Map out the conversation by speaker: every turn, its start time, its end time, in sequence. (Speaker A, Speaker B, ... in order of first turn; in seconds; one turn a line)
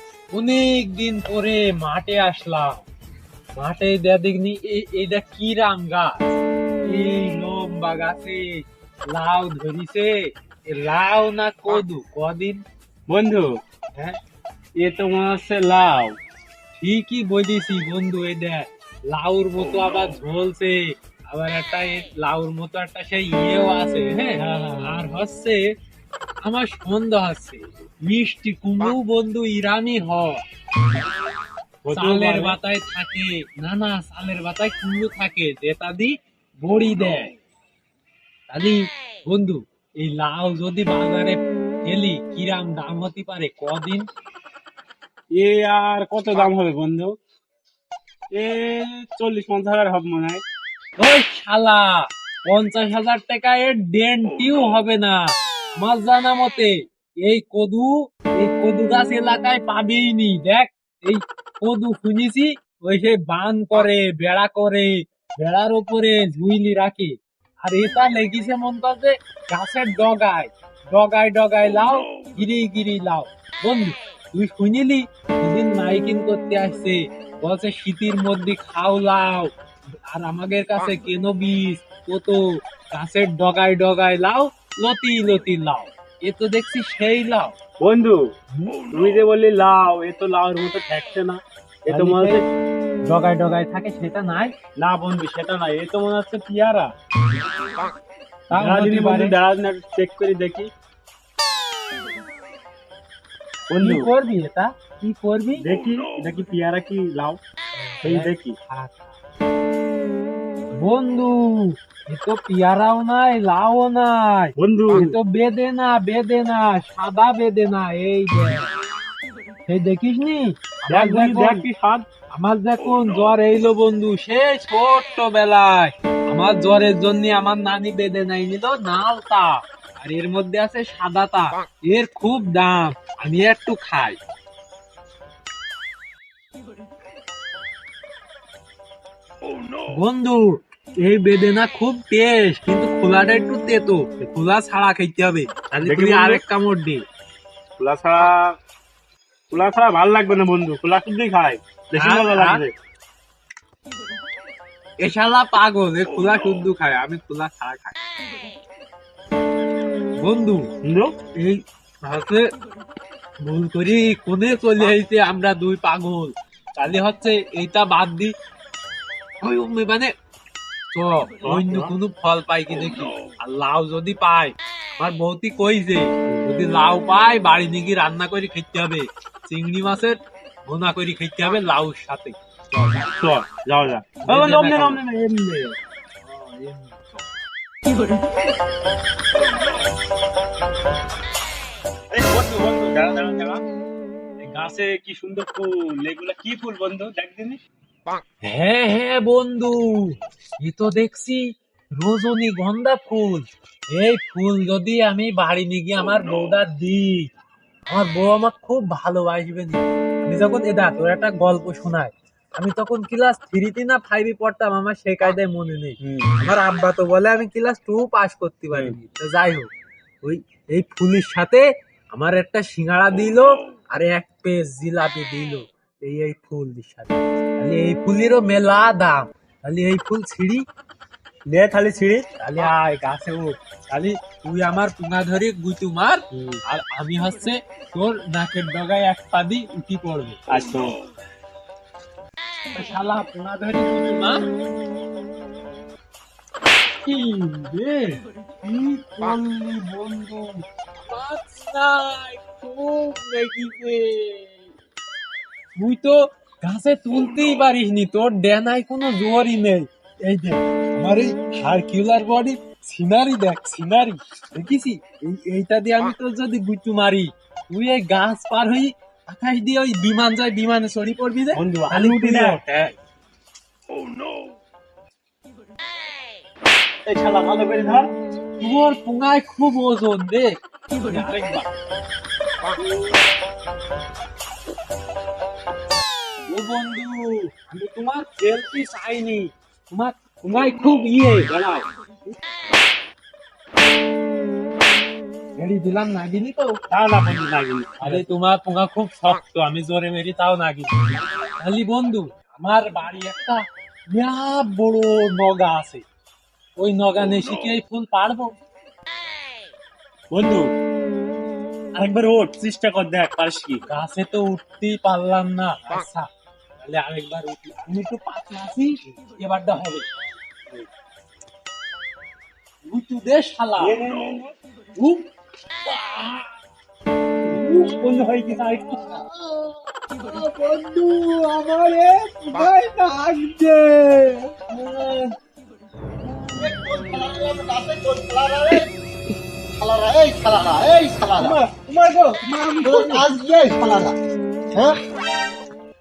Speaker A: 0.3-2.9
Speaker A: 3.6-6.3
Speaker A: 6.8-8.6
Speaker A: 9.1-10.2
Speaker A: 10.7-12.6
Speaker B: 13.1-14.2
Speaker B: 14.8-16.2
Speaker A: 16.8-20.8
Speaker A: 21.3-25.7
Speaker B: 24.4-24.7
Speaker A: 26.4-30.4
Speaker B: 31.8-32.6
Speaker A: 31.9-37.3
Speaker A: 38.5-44.1
Speaker B: 45.3-47.2
Speaker B: 48.4-50.4
Speaker A: 51.0-79.5
Speaker A: 80.1-87.5
Speaker B: 87.8-88.3
Speaker A: 88.5-88.8
Speaker B: 88.9-92.5
Speaker A: 91.9-92.4
Speaker A: 93.1-94.5
Speaker B: 94.8-96.9
Speaker A: 98.5-99.3
Speaker B: 98.5-100.7
Speaker B: 103.7-104.1
Speaker A: 103.8-105.7
Speaker B: 105.6-107.4
Speaker A: 107.8-109.2
Speaker B: 108.0-108.6
Speaker A: 110.8-118.7
Speaker B: 114.6-115.2
Speaker A: 119.7-121.7
Speaker B: 120.9-122.1
Speaker A: 122.3-134.2
Speaker A: 139.9-147.0
Speaker B: 145.8-146.4
Speaker B: 147.8-148.6
Speaker B: 149.5-152.7
Speaker A: 152.0-152.6
Speaker A: 155.0-158.0
Speaker A: 160.2-160.7
Speaker B: 160.8-161.2
Speaker A: 161.4-162.5
Speaker A: 163.4-168.3
Speaker A: 169.4-170.1
Speaker A: 170.9-183.1
Speaker B: 171.4-171.9
Speaker B: 183.2-185.8
Speaker A: 184.2-185.0
Speaker A: 186.2-187.1
Speaker B: 192.1-193.6
Speaker B: 194.4-197.6
Speaker A: 198.4-201.5
Speaker A: 202.0-207.3
Speaker A: 207.9-219.7
Speaker B: 216.0-216.3
Speaker A: 220.2-230.7
Speaker A: 231.5-240.4
Speaker B: 236.3-236.6
Speaker B: 240.5-241.0
Speaker A: 242.7-244.4
Speaker A: 247.0-254.6
Speaker A: 255.8-272.9
Speaker B: 271.5-272.6
Speaker B: 277.1-278.1
Speaker A: 278.6-280.5
Speaker A: 281.0-281.7
Speaker A: 286.5-291.9
Speaker A: 295.6-296.8
Speaker B: 296.9-298.2
Speaker A: 298.0-301.0
Speaker A: 301.6-306.1
Speaker A: 306.8-308.5
Speaker B: 310.3-310.7
Speaker B: 312.0-313.8
Speaker A: 313.9-316.3
Speaker A: 316.8-320.1
Speaker A: 322.9-324.0
Speaker B: 323.8-324.5
Speaker A: 325.0-325.3
Speaker A: 325.9-326.5
Speaker B: 327.5-328.9
Speaker A: 327.7-328.0
Speaker A: 328.6-335.1
Speaker B: 335.0-335.2
Speaker C: 336.6-338.9
Speaker C: 339.7-341.6
Speaker B: 341.4-343.3
Speaker C: 342.8-344.2
Speaker C: 344.7-345.0